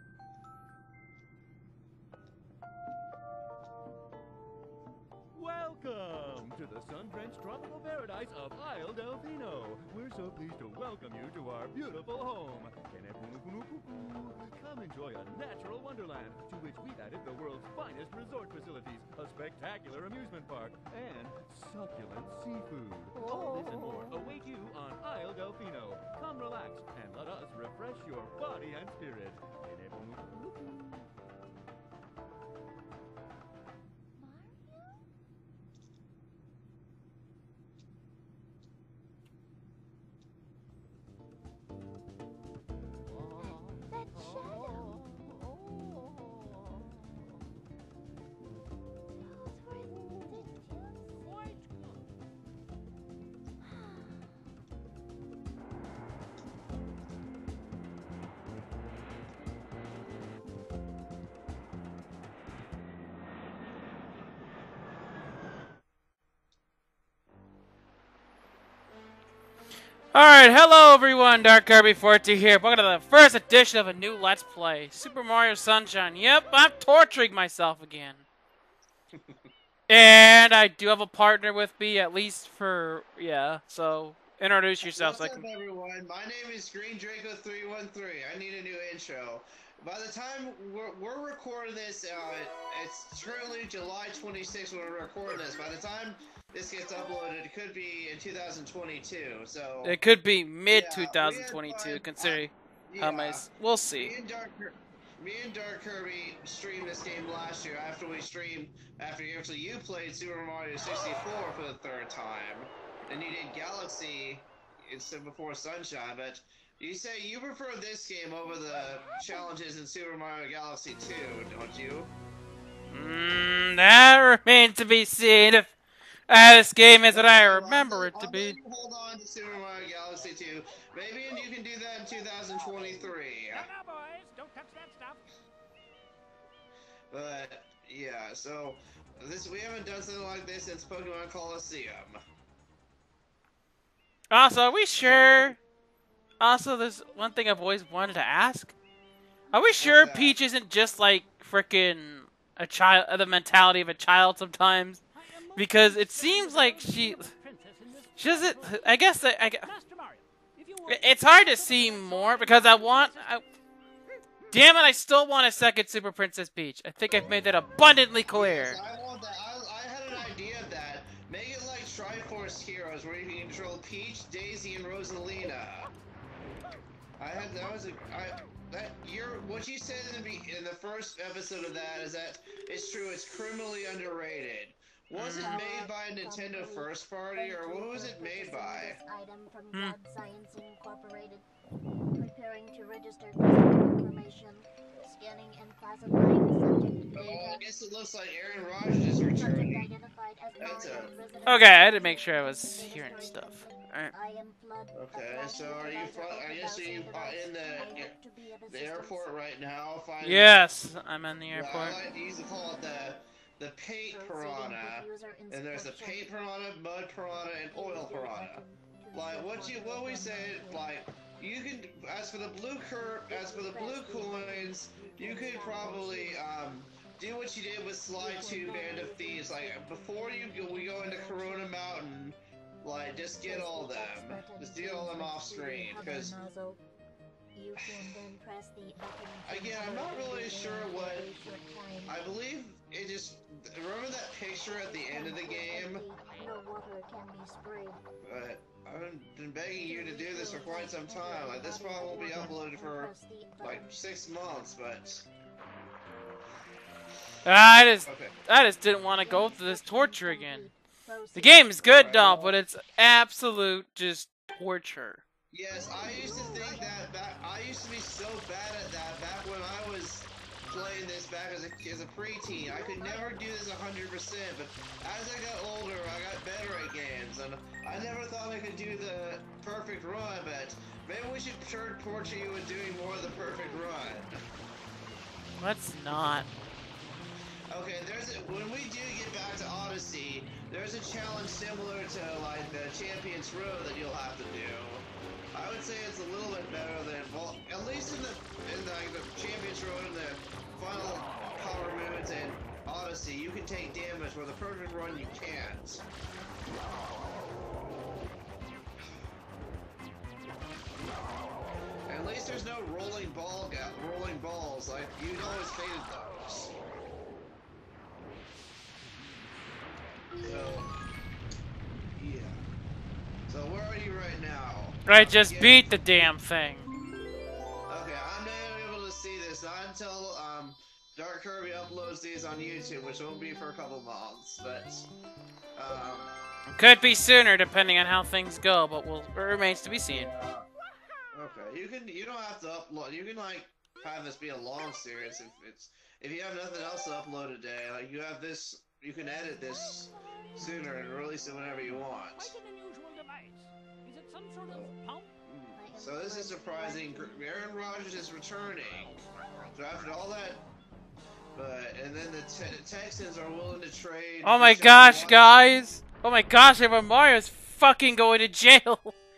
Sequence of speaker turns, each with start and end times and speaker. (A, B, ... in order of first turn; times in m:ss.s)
0:05.3-0:31.0 A
0:23.4-0:23.7 B
0:34.2-0:35.0 B
0:43.4-0:45.0 B
0:49.2-0:51.6 B
0:53.6-0:54.4 B
1:10.1-1:18.2 C
1:19.1-1:19.4 D
1:19.9-1:25.4 C
1:24.8-1:40.0 D
1:39.8-1:44.1 C
1:40.7-2:02.1 D
2:02.9-2:05.7 C
2:06.3-2:08.6 C
2:07.0-2:13.7 D
2:13.5-2:15.2 E
2:17.1-2:22.2 D
2:24.3-2:25.6 C
2:25.0-2:25.6 D
2:26.4-2:28.7 C
2:29.5-2:35.0 C
2:29.8-2:30.4 D
2:35.2-2:43.4 E
2:35.5-2:37.3 C
2:38.2-2:39.7 C
2:40.8-2:43.4 C
2:44.5-2:48.8 C
2:48.3-2:55.9 D
2:57.2-3:09.0 D
3:05.1-3:05.6 C
3:05.4-3:11.4 B
3:12.1-3:17.6 B
3:17.1-3:19.9 D
3:19.1-3:29.3 B
3:20.6-3:21.1 D
3:21.4-3:24.1 C
3:24.9-3:28.1 D
3:28.7-3:30.7 D
3:30.2-3:32.0 C
3:31.5-3:56.3 D
3:34.1-3:36.3 B
3:37.7-3:40.9 B
3:43.3-3:46.5 B
3:48.2-3:51.8 B
3:53.4-3:56.8 B
3:57.5-4:02.2 B
3:59.4-4:01.3 D
4:02.1-4:06.0 D
4:04.7-4:08.0 B
4:08.2-4:15.3 D
4:09.8-4:14.0 B
4:17.4-4:20.7 C
4:18.0-4:18.3 D
4:19.2-4:21.8 B
4:21.3-4:25.2 C
4:21.8-4:22.6 D
4:25.5-4:44.3 D
4:26.0-4:27.0 B
4:32.7-4:33.4 B
4:45.6-4:46.5 C
4:47.7-5:06.0 D
5:12.1-5:16.7 D
5:20.4-5:20.9 D
5:22.2-5:22.6 D
5:23.5-5:25.8 D
5:25.0-5:26.9 C
5:27.9-5:35.1 D
5:35.8-5:36.3 D
5:36.7-5:40.3 C
5:40.1-5:40.7 D
5:41.3-5:52.6 D
5:50.0-5:50.7 E
5:52.3-5:55.3 E
5:55.5-5:59.2 D
5:55.7-5:57.9 B
5:59.4-5:59.8 B
5:59.7-6:00.6 D
6:01.5-6:05.5 D
6:04.4-6:09.1 C